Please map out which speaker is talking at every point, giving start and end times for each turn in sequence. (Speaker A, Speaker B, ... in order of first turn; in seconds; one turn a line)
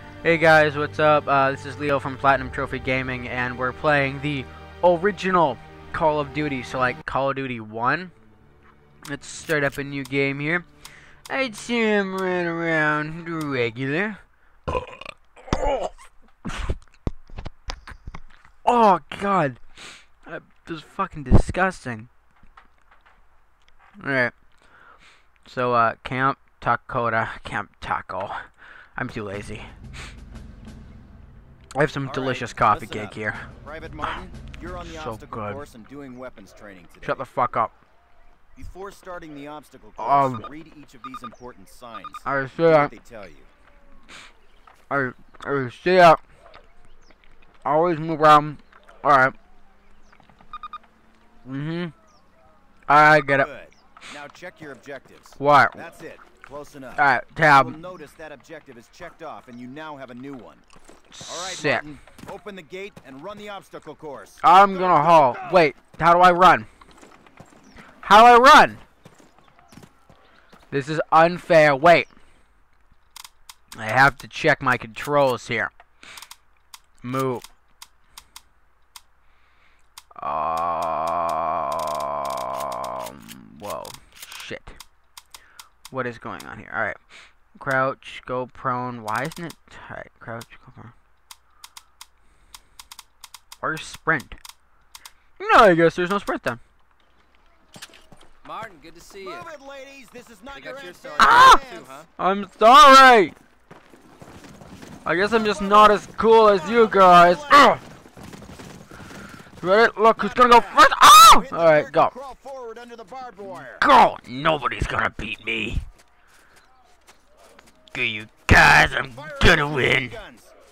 Speaker A: 0.2-8.1
Speaker A: 9.1-10.6
Speaker A: 11.3-15.9
Speaker A: 16.4-16.7
Speaker A: 18.6-19.6
Speaker A: 20.2-22.1
Speaker A: 24.0-24.3
Speaker A: 25.4-28.4
Speaker A: 28.9-29.7
Speaker A: 31.7-33.5
Speaker B: 32.0-37.2
Speaker A: 34.8-35.6
Speaker A: 37.0-37.7
Speaker B: 38.5-43.5
Speaker A: 40.0-40.5
Speaker A: 42.2-42.9
Speaker A: 44.9-46.2
Speaker A: 47.6-49.3
Speaker A: 51.4-51.9
Speaker A: 52.9-53.5
Speaker B: 53.3-60.6
Speaker A: 55.4-55.8
Speaker A: 57.0-57.8
Speaker A: 61.1-61.9
Speaker B: 61.3-65.6
Speaker A: 64.4-66.7
Speaker A: 68.0-68.8
Speaker A: 70.7-72.1
Speaker A: 73.8-75.7
Speaker A: 77.0-77.5
Speaker A: 80.2-84.8
Speaker A: 85.9-87.0
Speaker A: 87.5-90.9
Speaker A: 93.6-94.4
Speaker A: 95.4-96.6
Speaker C: 98.4-99.5
Speaker B: 99.2-102.1
Speaker C: 100.5-102.0
Speaker A: 101.2-101.6
Speaker A: 102.2-103.3
Speaker A: 105.0-107.8
Speaker B: 105.4-107.8
Speaker A: 109.6-112.1
Speaker B: 110.1-113.8
Speaker A: 113.6-115.8
Speaker A: 117.9-120.2
Speaker B: 119.0-120.5